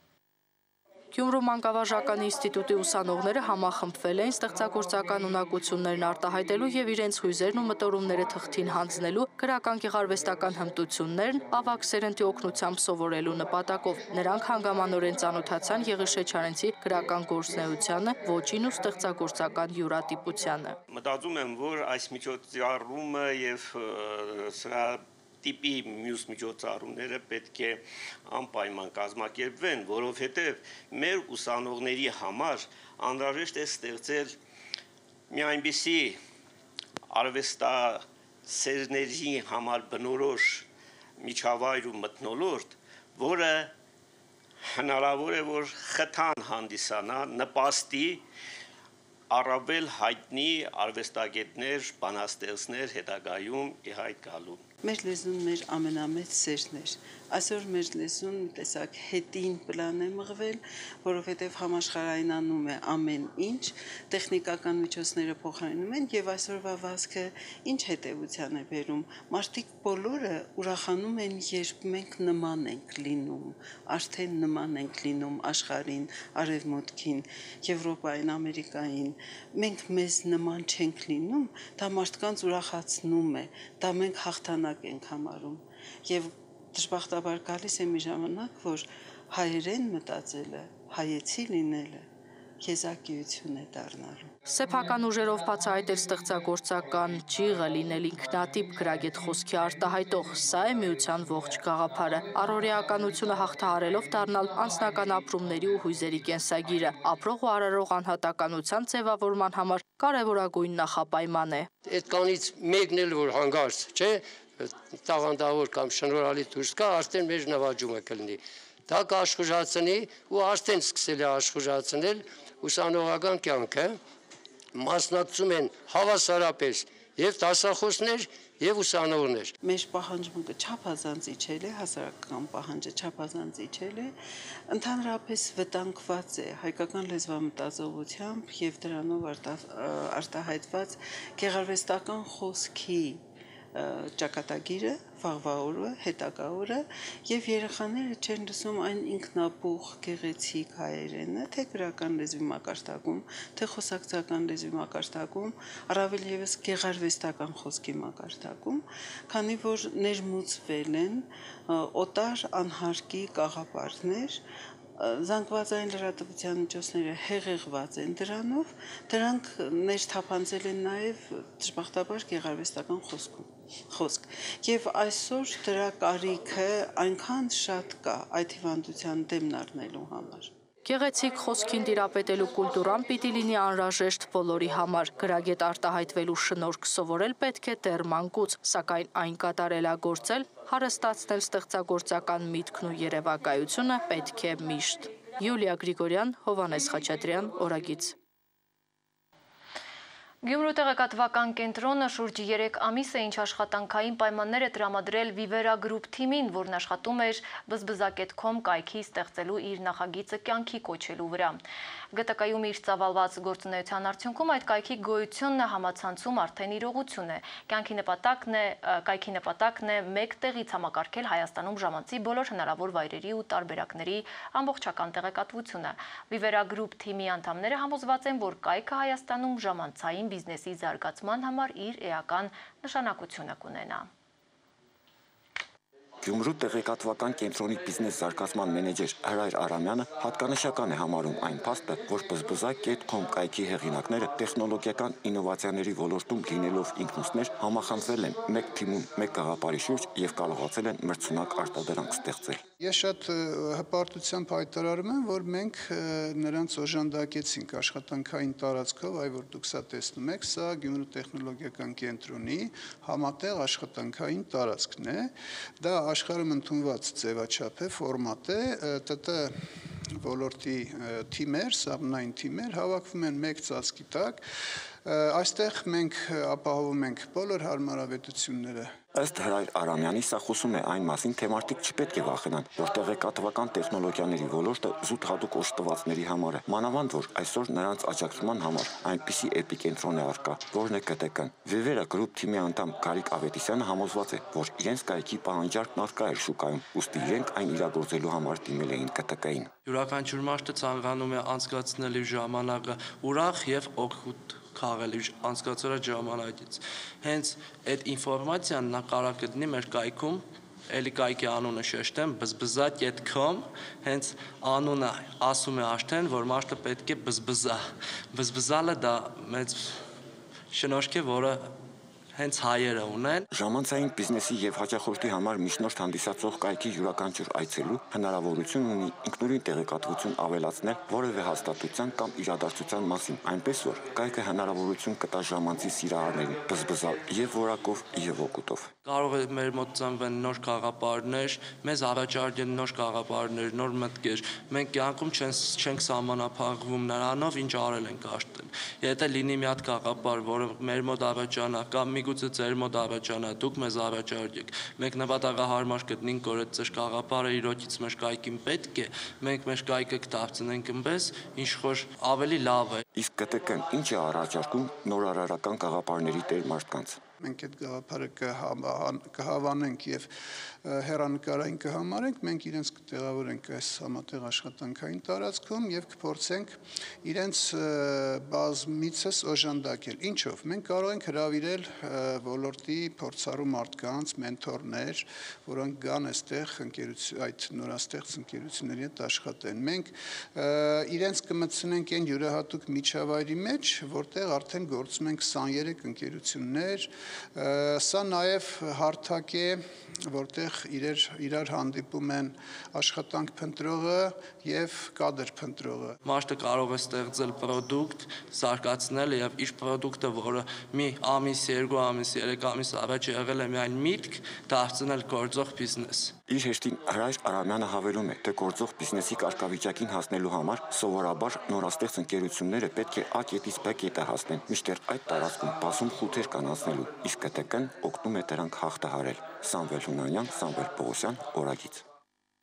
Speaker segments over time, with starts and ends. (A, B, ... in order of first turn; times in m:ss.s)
0:01.1-0:20.8 A
0:20.9-0:34.4 B
0:35.3-0:36.2 B
0:37.1-0:40.7 B
0:41.2-0:43.7 B
0:44.6-0:48.2 B
0:49.3-0:54.6 B
0:54.8-1:32.1 C
1:32.6-1:34.3 C
1:34.5-1:51.7 A
1:51.8-2:04.0 D
2:04.8-2:09.5 D
2:09.6-2:14.1 C
2:14.7-2:23.2 C
2:23.8-2:44.4 C
2:45.0-3:00.5 C
3:00.8-3:18.2 A
3:20.4-3:31.6 E
3:32.1-3:54.1 E
3:56.2-4:12.6 F
4:12.8-4:29.6 G
4:30.2-4:34.4 G
4:35.0-4:38.9 G
4:39.1-4:59.7 F
4:59.8-5:20.0 H
5:20.7-5:21.7 H
5:22.3-5:23.4 H
5:23.5-5:38.9 F
5:39.0-6:03.0 H
6:03.1-6:07.2 F
6:07.4-6:46.2 G
6:46.2-6:56.3 H
6:56.5-7:12.0 F